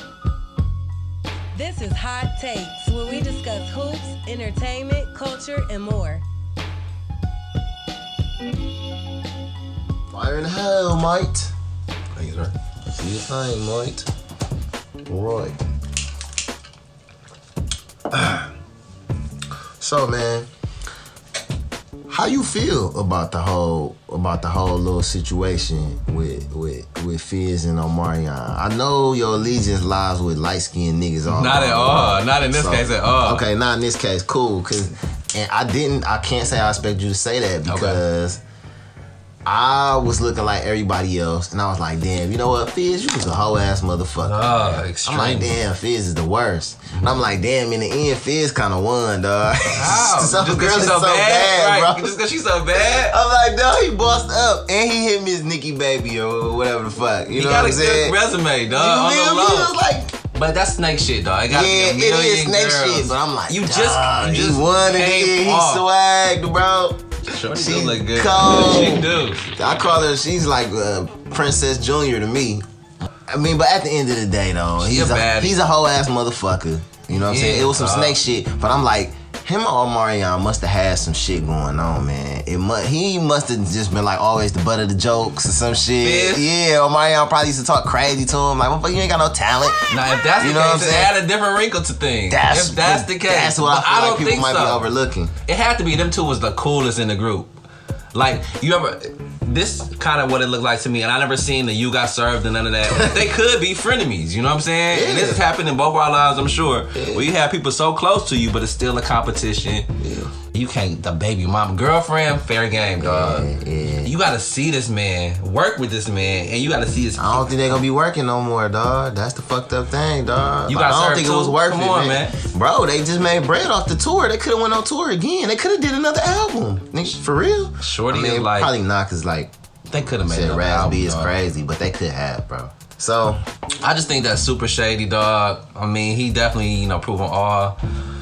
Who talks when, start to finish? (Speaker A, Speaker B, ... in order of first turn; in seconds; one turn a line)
Speaker A: 1.5-6.2
Speaker B: 10.1-11.5
Speaker C: 12.1-12.5
Speaker B: 12.9-14.1
Speaker B: 15.1-15.5
Speaker B: 18.1-18.5
Speaker B: 19.8-20.5
Speaker B: 22.1-38.4
Speaker C: 31.2-33.5
Speaker C: 37.7-38.0
Speaker B: 39.5-52.1
Speaker C: 44.2-45.6
Speaker C: 46.9-47.2
Speaker C: 49.7-53.2
Speaker B: 52.7-58.2
Speaker C: 57.3-59.8
Speaker B: 58.7-60.1
Speaker C: 60.3-65.8
Speaker B: 61.5-72.6
Speaker C: 67.2-69.5
Speaker B: 73.3-91.2
Speaker C: 74.8-75.6
Speaker C: 77.1-78.2
Speaker C: 86.0-86.5
Speaker C: 89.9-94.8
Speaker B: 92.3-95.3
Speaker C: 95.5-97.5
Speaker C: 98.1-109.9
Speaker B: 102.9-103.2
Speaker B: 104.9-105.4
Speaker B: 106.9-107.3
Speaker B: 110.0-110.3
Speaker C: 110.5-113.5
Speaker B: 113.0-114.2
Speaker C: 114.0-117.8
Speaker B: 117.2-129.5
Speaker C: 120.7-122.4
Speaker C: 127.8-128.7
Speaker C: 129.9-131.3
Speaker B: 130.2-133.4
Speaker C: 133.8-137.8